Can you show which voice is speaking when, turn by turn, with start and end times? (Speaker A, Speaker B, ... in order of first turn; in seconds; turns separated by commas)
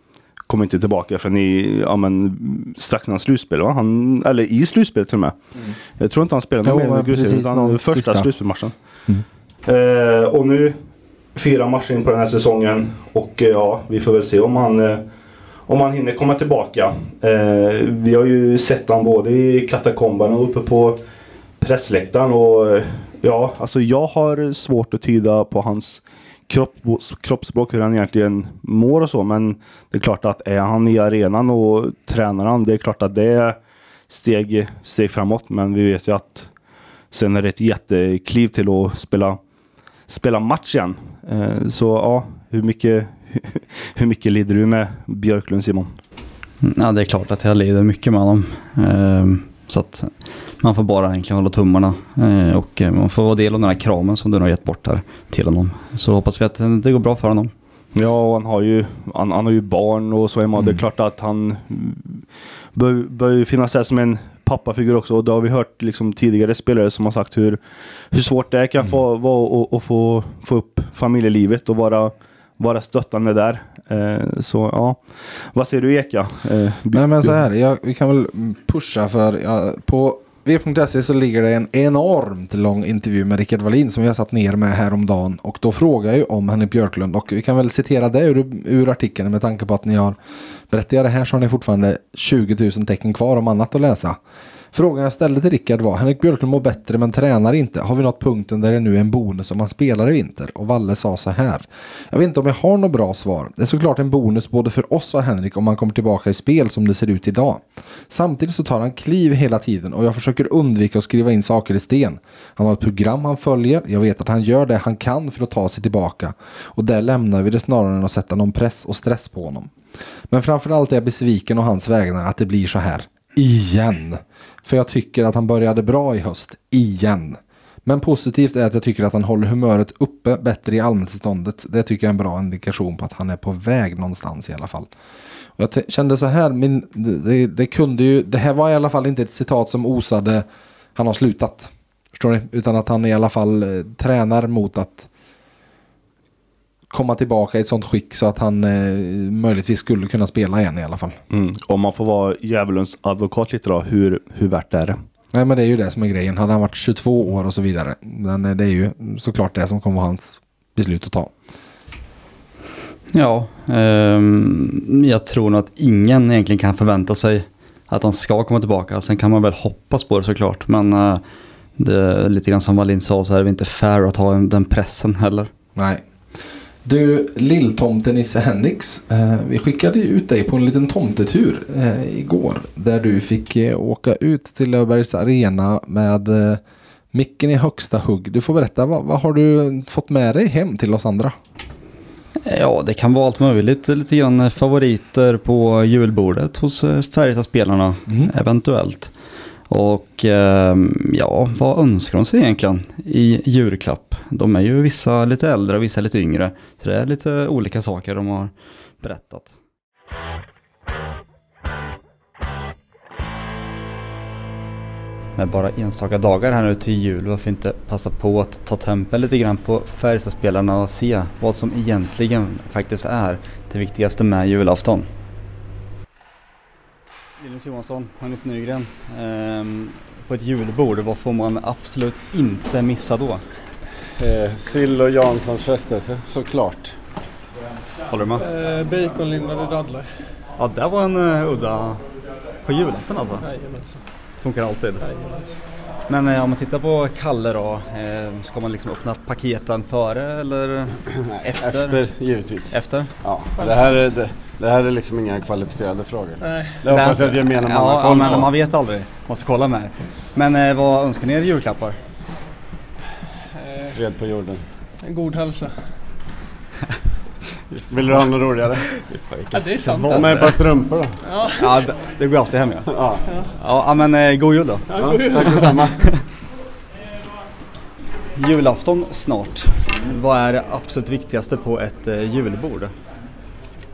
Speaker A: 0.5-5.4, Speaker A: 6.0-8.7, Speaker B: 6.6-8.3, Speaker A: 9.7-10.8, Speaker A: 11.3-15.0, Speaker A: 15.7-21.0, Speaker A: 21.6-33.6, Speaker A: 34.1-36.5, Speaker A: 37.1-39.4, Speaker A: 40.1-46.0, Speaker C: 46.6-57.5, Speaker A: 57.9-67.6, Speaker B: 60.5-60.8, Speaker A: 68.1-77.4, Speaker B: 76.9-90.2, Speaker B: 90.7-94.2, Speaker B: 94.7-119.7, Speaker B: 120.3-134.9, Speaker B: 135.6-145.1, Speaker B: 146.9-151.2, Speaker A: 151.3-155.0, Speaker B: 155.3-161.3, Speaker C: 163.1-171.2, Speaker C: 171.8-175.5, Speaker B: 175.8-176.0, Speaker B: 176.8-186.6, Speaker B: 187.1-191.3, Speaker C: 192.4-199.1, Speaker B: 198.1-198.3, Speaker C: 199.7-209.6, Speaker C: 215.4-225.1, Speaker C: 227.4-233.4, Speaker D: 234.2-236.9, Speaker C: 238.1-238.5, Speaker E: 238.4-240.1, Speaker C: 240.6-242.0, Speaker C: 242.6-243.4, Speaker E: 243.4-244.0, Speaker C: 244.4-245.0, Speaker E: 245.0-245.6, Speaker C: 246.1-253.1, Speaker D: 251.2-258.6, Speaker E: 253.6-253.9, Speaker E: 256.4-257.1, Speaker C: 256.9-262.0, Speaker E: 263.6-264.0, Speaker D: 263.9-264.7, Speaker E: 265.0-265.9, Speaker D: 267.9-268.9, Speaker C: 269.5-271.0, Speaker E: 269.5-271.8, Speaker D: 270.1-271.2, Speaker C: 271.6-272.9, Speaker D: 272.9-273.2, Speaker C: 273.6-276.1, Speaker E: 274.9-275.9, Speaker D: 275.0-276.0, Speaker C: 278.4-282.9